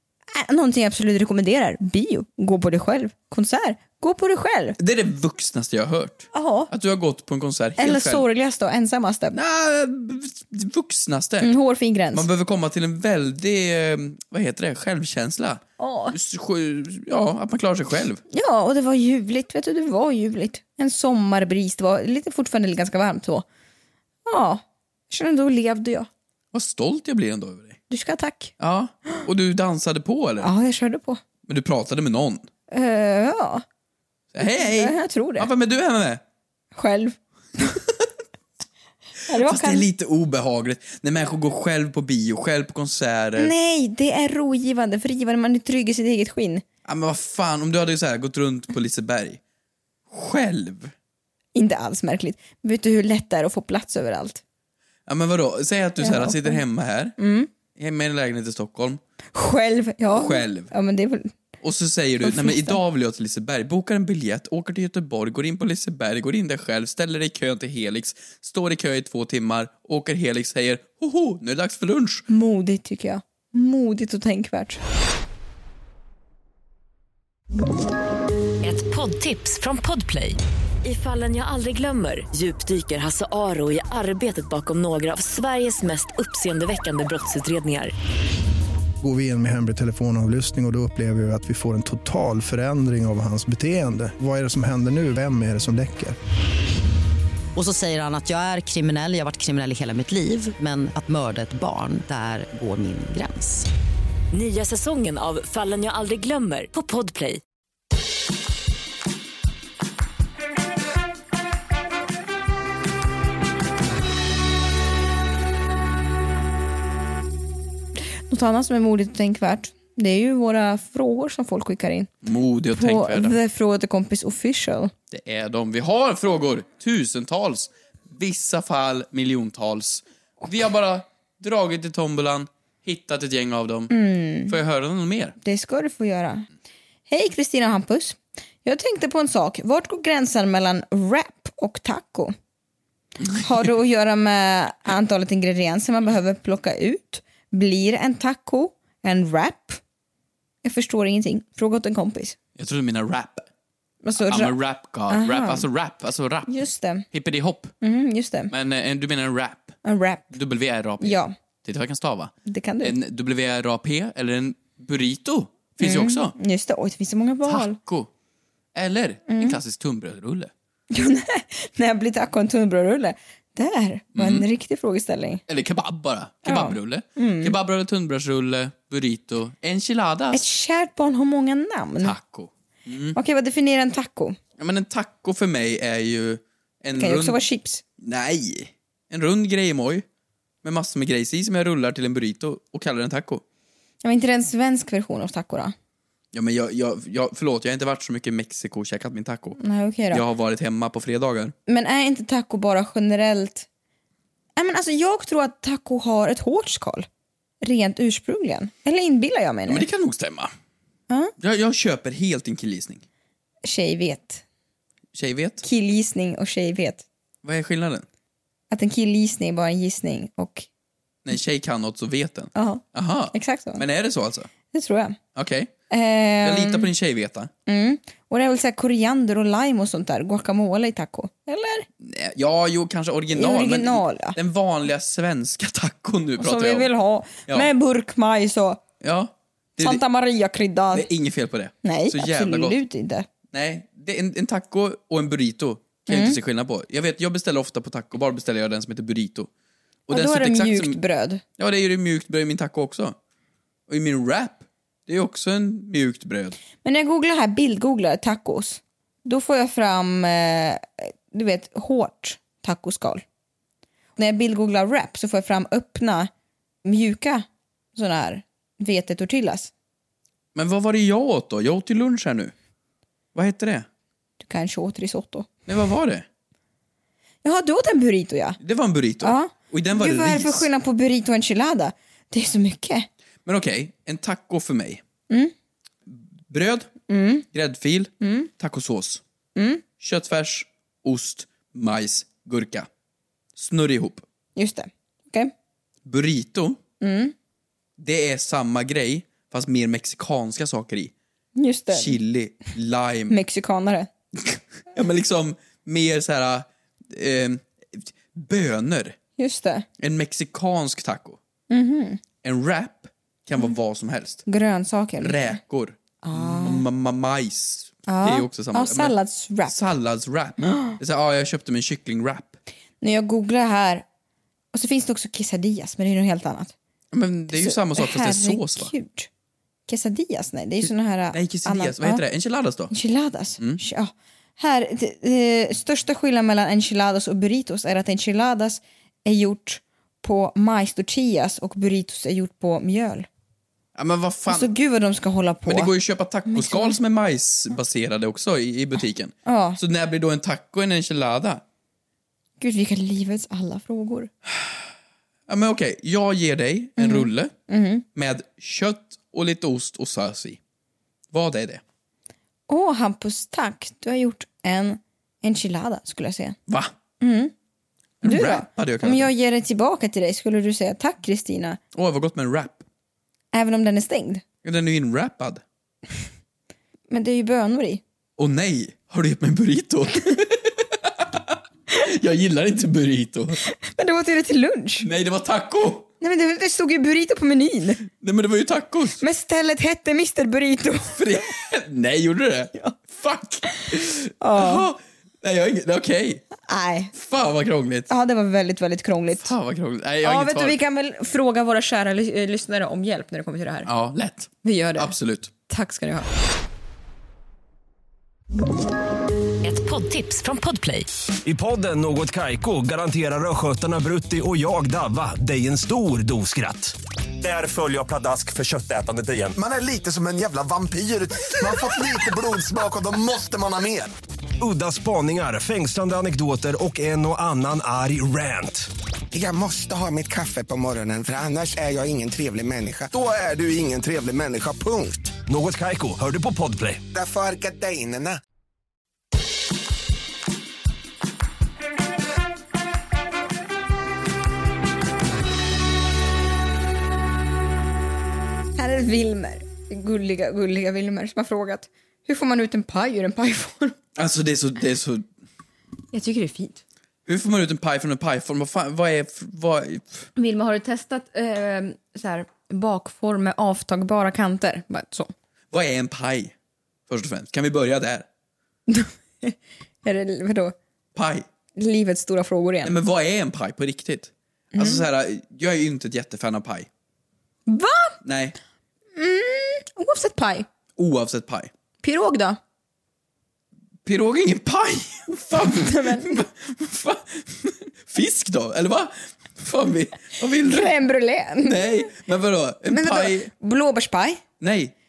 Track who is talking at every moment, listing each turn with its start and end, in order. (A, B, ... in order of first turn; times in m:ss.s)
0:00.3-0:04.8 A
0:04.8-0:08.2 B
0:06.3-0:06.7 A
0:07.8-0:09.4 A
0:09.3-0:11.5 B
0:11.4-0:12.3 A
0:12.1-0:18.2 B
0:15.8-0:16.2 A
0:18.3-0:23.4 A
0:24.2-0:26.1 A
0:26.5-0:27.8 B
0:27.9-0:28.5 A
0:28.6-0:30.5 B
0:30.4-0:31.2 A
0:31.4-0:32.5 B
0:32.7-0:33.6 A
0:34.3-0:36.2 B
0:34.4-0:35.5 A
0:36.7-0:37.8 A
0:39.3-0:39.9 A
0:39.4-0:43.5 B
0:43.4-0:46.6 A
0:46.8-0:49.4 B
0:50.1-0:50.9 B
0:51.5-0:54.4 A
0:55.1-0:57.2 B
0:56.0-0:56.6 A
0:57.2-0:57.5 A
0:57.7-0:59.0 B
0:59.3-1:01.3 A
1:00.1-1:00.7 B
1:01.6-1:12.3 B
1:02.2-1:02.8 A
1:12.3-1:14.8 A
1:18.6-1:27.9 C
1:29.0-1:36.2 D
1:37.5-1:43.7 E
1:44.3-1:47.4 C
1:58.0-2:02.1 A
2:02.2-2:03.4 B
2:02.7-2:04.9 A
2:05.1-2:13.9 B
2:13.9-2:14.5 A
2:14.5-2:15.4 B
2:15.4-2:16.5 A
2:17.1-2:22.3 A
2:23.4-2:29.8 A
2:30.6-2:32.4 A
2:32.6-2:33.4 B
2:34.0-2:34.6 A
2:34.2-2:36.5 B
2:35.1-2:35.6 A
2:36.5-2:37.0 A
2:37.1-2:37.7 B
2:37.8-2:38.5 A
2:38.5-2:39.8 B
2:39.8-2:40.3 A
2:40.3-2:46.3 B
2:41.0-2:41.3 A
2:42.4-2:42.9 A
2:45.8-2:47.8 A
2:47.4-2:48.1 B
2:48.7-2:50.5 B
2:49.3-2:49.6 A
2:50.9-2:55.4 A
2:54.2-2:54.4 B
2:55.5-3:00.4 B
2:56.4-2:57.5 A
3:00.3-3:02.1 A
3:02.0-3:03.2 B
3:03.1-3:04.4 A
3:04.6-3:07.4 B
3:07.0-3:07.8 A
3:08.0-3:10.0 B
3:10.6-3:13.4 B
3:14.0-3:15.7 A
3:16.3-3:19.6 B
3:19.6-3:20.2 A
3:20.1-3:21.5 B
3:21.7-3:23.7 A
3:24.6-3:27.1 A
3:27.6-3:29.8 A
3:29.7-3:30.5 B
3:31.4-3:33.0 B
3:33.6-3:34.4 A
3:35.1-3:35.6 B
3:35.6-3:37.0 A
3:37.4-3:38.0 B
3:38.7-3:40.7 A
3:41.2-3:44.5 B
3:42.5-3:43.8 A
3:44.7-3:45.2 A
3:45.3-3:45.7 B
3:45.9-3:46.9 A
3:46.4-3:47.5 B
3:47.6-3:51.8 A
3:52.0-3:56.9 B
3:53.3-3:54.4 A
3:56.4-3:58.8 A
3:59.0-4:00.0 B
3:59.8-4:01.1 A
4:00.9-4:02.8 B
4:01.8-4:03.3 A
4:03.5-4:09.5 B
4:06.1-4:06.4 A
4:10.1-4:11.0 B
4:10.1-4:11.4 A
4:11.6-4:13.2 B
4:13.9-4:16.6 B
4:16.8-4:23.2 A
4:24.2-4:26.3 A
4:26.8-4:29.7 A
4:30.5-4:32.5 B
4:33.3-4:33.8 B
4:34.4-4:35.5 A
4:35.7-4:36.2 B
4:37.4-4:38.6 A
4:38.6-4:40.7 B
4:39.2-4:43.1 A
4:43.4-4:45.0 B
4:46.1-4:46.9 B
4:47.1-4:47.4 A
4:47.5-4:49.2 B
4:48.2-4:48.5 A
4:49.6-4:49.8 A
4:50.0-4:52.9 B
4:53.6-4:54.2 B
4:54.6-4:55.5 A
4:56.0-4:56.8 B
4:57.0-4:57.3 A
4:58.0-5:01.1 B
5:01.6-5:02.2 A
5:01.9-5:03.3 B
5:03.3-5:04.1 A
5:04.4-5:09.2 B
5:09.4-5:09.8 A
5:10.0-5:11.4 B
5:11.7-5:12.2 A
5:12.4-5:14.4 B
5:14.4-5:15.6 A
5:15.2-5:19.1 B
5:16.2-5:16.8 A
5:18.1-5:19.8 A
5:19.7-5:22.6 B
5:23.0-5:24.0 A
5:24.7-5:26.7 A
5:27.1-5:28.9 B
5:27.5-5:29.3 A
5:29.9-5:32.2 A
5:31.3-5:32.9 B
5:32.9-5:43.3 A
5:44.0-5:44.7 B
5:44.5-5:45.9 A
5:45.6-5:51.6 B
5:46.5-5:47.0 A
5:49.4-5:49.8 A
5:52.6-5:54.3 A
5:54.5-5:54.8 B
5:55.5-5:57.5 B
5:57.0-5:58.0 A
5:58.1-6:00.6 B
6:01.3-6:01.8 B
6:02.7-6:06.6 A
6:07.2-6:07.5 A
6:08.2-6:09.3 B
6:08.2-6:11.8 A
6:11.9-6:12.8 B
6:13.5-6:14.4 A
6:14.6-6:15.6 B
6:17.1-6:18.0 A
6:18.4-6:23.6 B
6:23.7-6:25.1 A
6:25.0-6:26.1 B
6:26.2-6:28.0 A
6:28.2-6:29.2 B
6:29.2-6:31.2 A
6:31.2-6:36.4 B
6:34.4-6:34.8 A
6:36.6-6:37.1 A
6:37.1-6:38.1 B
6:38.1-6:39.5 A
6:39.4-6:40.8 B
6:40.2-6:43.9 A
6:43.8-6:45.5 B
6:44.6-6:45.1 A
6:45.7-6:46.3 A
6:49.6-6:51.1 C
6:51.4-6:59.5 F
6:59.6-7:04.1 G
7:04.6-7:08.9 F
7:09.3-7:15.3 G
7:15.4-7:17.0 F
7:17.1-7:18.4 G
7:28.8-7:34.0 A
7:34.2-7:35.2 B
7:36.1-7:36.8 A
7:37.2-7:40.2 B
7:40.4-7:45.3 A
7:45.7-7:46.5 B
7:47.1-7:48.2 B
7:48.9-7:50.7 A
7:51.1-7:51.4 B
7:51.8-7:52.9 A
7:52.8-7:56.9 B
7:54.8-7:55.0 A
7:57.7-7:58.2 A
7:58.2-7:58.6 B
7:59.2-8:00.7 A
8:01.0-8:01.7 B
8:02.0-8:02.6 A
8:04.0-8:10.9 B
8:05.5-8:06.4 A
8:10.6-8:12.1 A
8:11.6-8:13.5 B
8:12.9-8:14.4 A
8:14.6-8:14.9 B